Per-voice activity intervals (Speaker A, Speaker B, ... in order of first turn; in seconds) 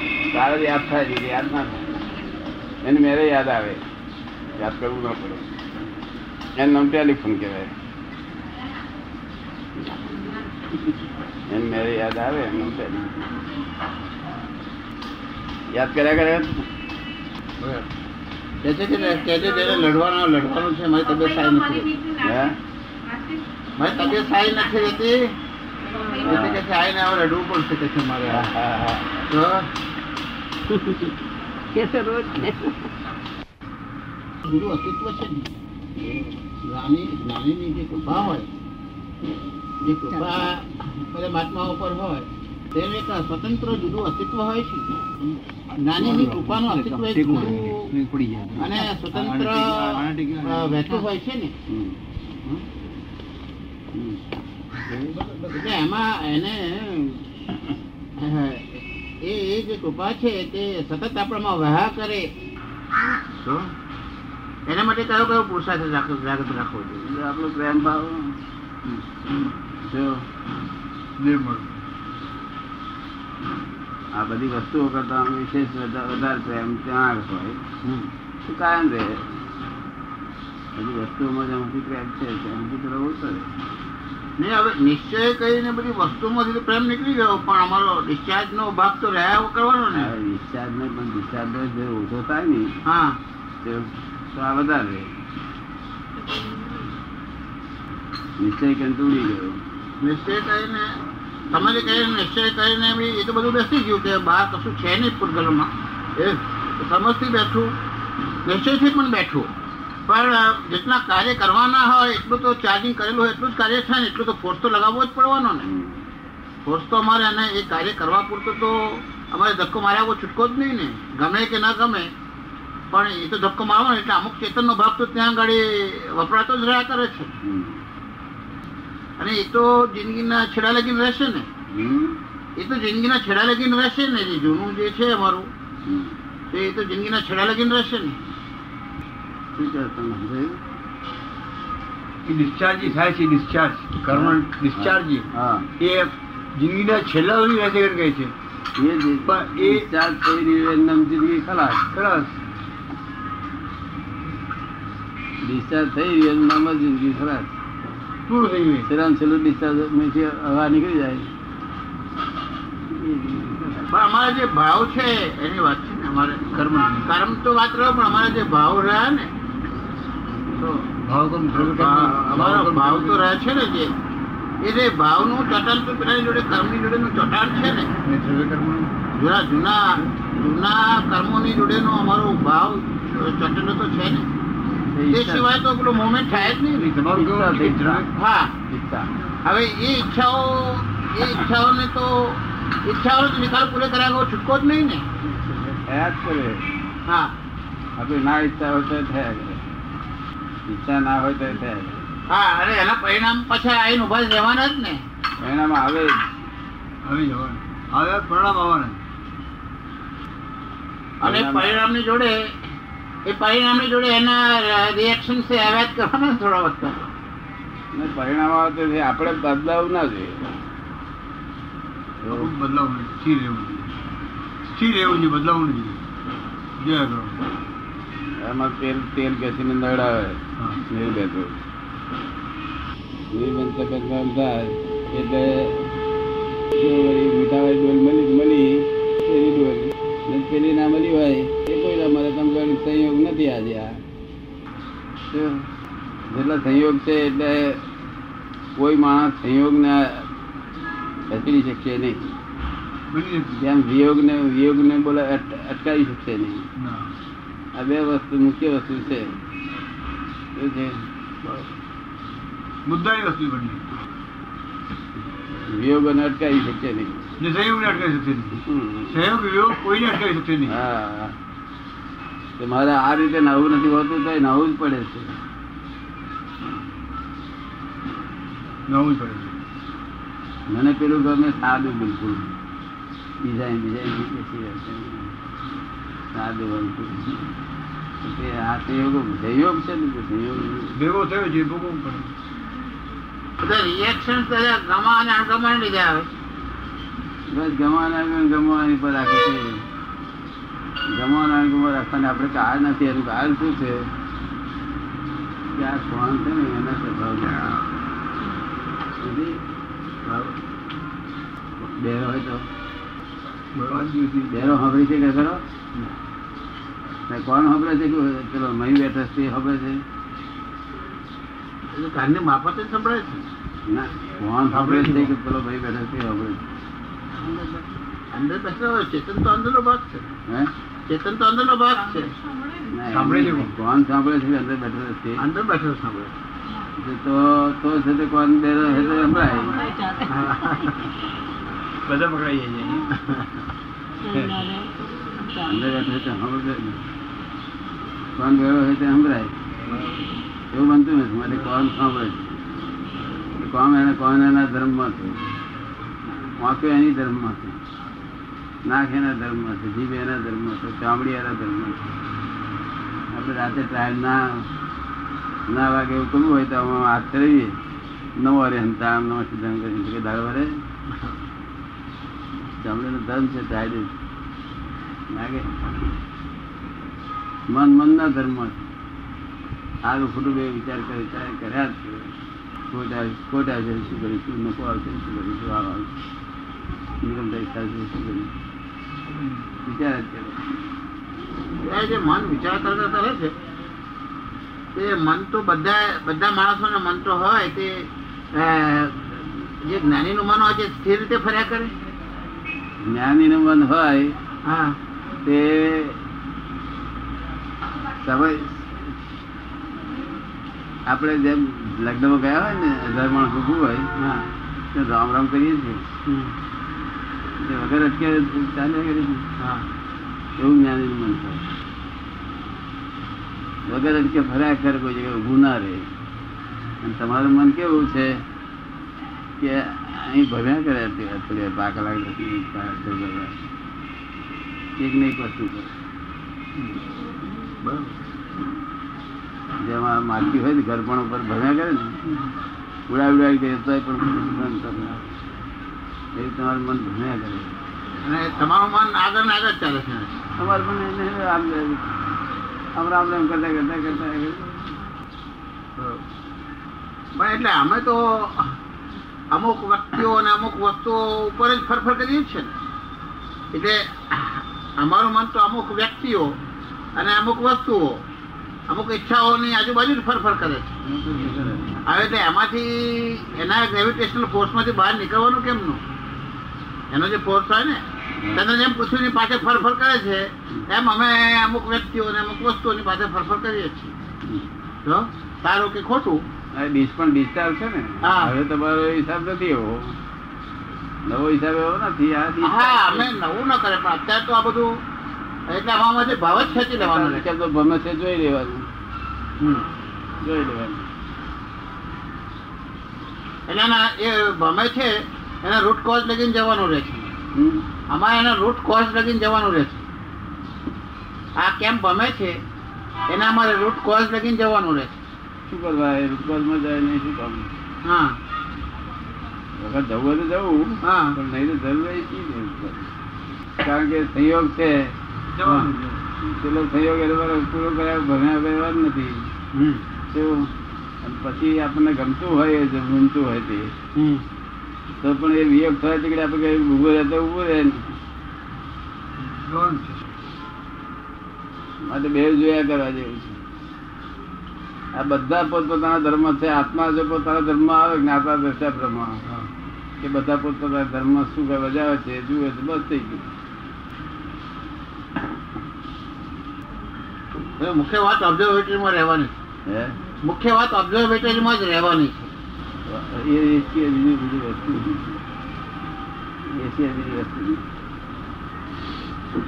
Speaker A: 0.3-1.9, 2.8-3.8, 4.6-5.5, 6.6-7.7, 11.5-13.3, 15.7-16.6, 22.2-22.6, 26.2-26.6, 28.3-29.1, 30.7-31.1, 31.7-32.8, 36.0-36.3, 51.7-52.0, 53.9-54.2, 54.9-55.1, 67.0-68.4, 69.8-70.2, 74.1-77.6, 78.4-79.2, 80.7-83.5, 89.9-92.7, 93.6-95.1, 98.4-99.6, 115.6-116.0, 127.4-127.8, 131.7-132.2, 135.8-136.2, 139.6-140.6, 144.1-145.7, 148.8-151.9, 155.4-157.5, 158.8-161.3, 162.9-163.9, 184.9-185.4, 187.0-188.1, 188.7-189.1, 195.2-196.7, 198.0-199.6, 200.7-202.0, 205.4-206.2, 211.2-211.8, 217.9-220.4, 222.2-222.5, 228.4-231.6, 233.3-235.9, 236.7-244.0, 245.3-245.7, 246.3-247.8, 248.8-250.3, 251.3-252.2, 253.5-256.6, 257.7-259.3, 260.6-261.0, 265.6-267.2, 268.6-269.2, 270.7-271.4, 272.6-275.3, 280.7-282.5, 283.4-285.3, 286.3-287.5, 288.2-291.0, 297.5-299.8, 301.1-304.1, 305.7-307.8, 309.2-309.6, 311.8-312.6, 314.5-315.6, 317.3-320.0, 323.9-326.6, 332.9-335.4, 337.0-339.9, 345.6-347.0, 348.4-349.5, 350.7-352.5, 353.6-355.4, 356.6-357.8, 358.9-362.0, 363.3-364.6, 365.7-367.8, 368.4-370.7, 372.8-374.1, 375.3-375.7, 377.7-378.8, 380.0-382.3, 382.9-386.1, 387.2-388.5, 389.9-390.6, 403.0-404.4, 405.4-406.2, 408.1-408.9, 411.1-414.1, 414.9-416.0, 417.6-419.4, 420.6-421.6, 423.9-426.1, 427.0-428.4, 429.6-433.5, 435.0-435.9, 439.8-442.2, 443.1-445.2, 446.4-447.7, 450.6-452.0, 452.9-455.0, 471.0-472.0, 486.7-490.2, 491.3-493.3, 496.6-498.9, 500.4-501.1, 507.5-507.8, 515.6-517.7, 519.8-523.1, 523.8-525.1, 526.4-529.5, 530.3-530.7, 531.2-533.9, 535.2-538.1, 542.0-543.6, 545.1-549.4, 550.2-553.5, 559.9-560.2, 563.1-565.4, 566.7-567.8
Speaker B: 17.6-17.9, 18.6-22.1, 23.8-25.4, 26.0-28.5, 29.3-29.7, 34.4-35.5, 36.6-38.5, 39.8-45.0, 45.8-47.9, 48.6-51.5, 55.5-57.2, 58.2-62.3, 63.4-63.7, 64.7-67.0, 77.8-78.1, 84.4-90.1, 92.8-93.2, 100.0-100.9, 101.5-107.7, 108.4-109.5, 110.1-115.6, 116.6-122.1, 122.9-127.3, 129.2-131.5, 132.6-135.5, 136.5-138.2, 163.9-169.3, 170.6-170.8, 171.5-173.9, 174.6-177.9, 179.2-184.2, 185.1-186.9, 188.1-188.5, 189.4-195.0, 197.1-197.3, 202.3-205.0, 211.2-212.5, 213.2-216.9, 293.6-296.3, 321.9-323.5, 327.4-327.8, 328.3-330.2, 331.1-332.3, 335.4-336.3, 340.3-341.1, 391.8-393.5, 394.9-401.9, 404.6-405.0, 414.2-414.5, 416.2-416.5, 419.6-419.9, 437.8-438.1, 448.2-450.3, 457.4-458.7, 459.5-462.7, 463.7-466.6, 467.1-468.2, 468.9-471.0, 472.1-476.0, 477.1-478.0, 478.5-484.1, 485.0-486.4, 488.2-488.5, 492.6-494.9, 495.7-497.4, 499.6-499.9, 503.7-507.3, 508.1-510.0, 511.6-512.6, 513.3-515.2, 518.0-518.4, 521.0-521.4, 529.7-530.0, 534.1-534.4, 557.8-559.5, 560.4-562.5
Speaker C: 46.0-51.0, 55.1-55.6, 71.2-71.7, 142.2-145.3, 145.8-148.3, 149.2-149.9, 151.9-152.3, 158.3-158.9, 166.6-167.0, 170.9-173.2, 178.0-178.9, 186.7-188.1, 207.0-209.0, 222.3-223.9, 224.7-226.0, 226.8-227.4, 253.1-253.5, 256.8-257.1, 262.9-263.8, 267.4-270.8, 278.9-279.6, 290.9-292.3, 313.8-314.9, 324.7-325.3, 333.1-333.7, 342.0-343.1, 344.3-344.7, 525.5-526.2, 539.4-540.3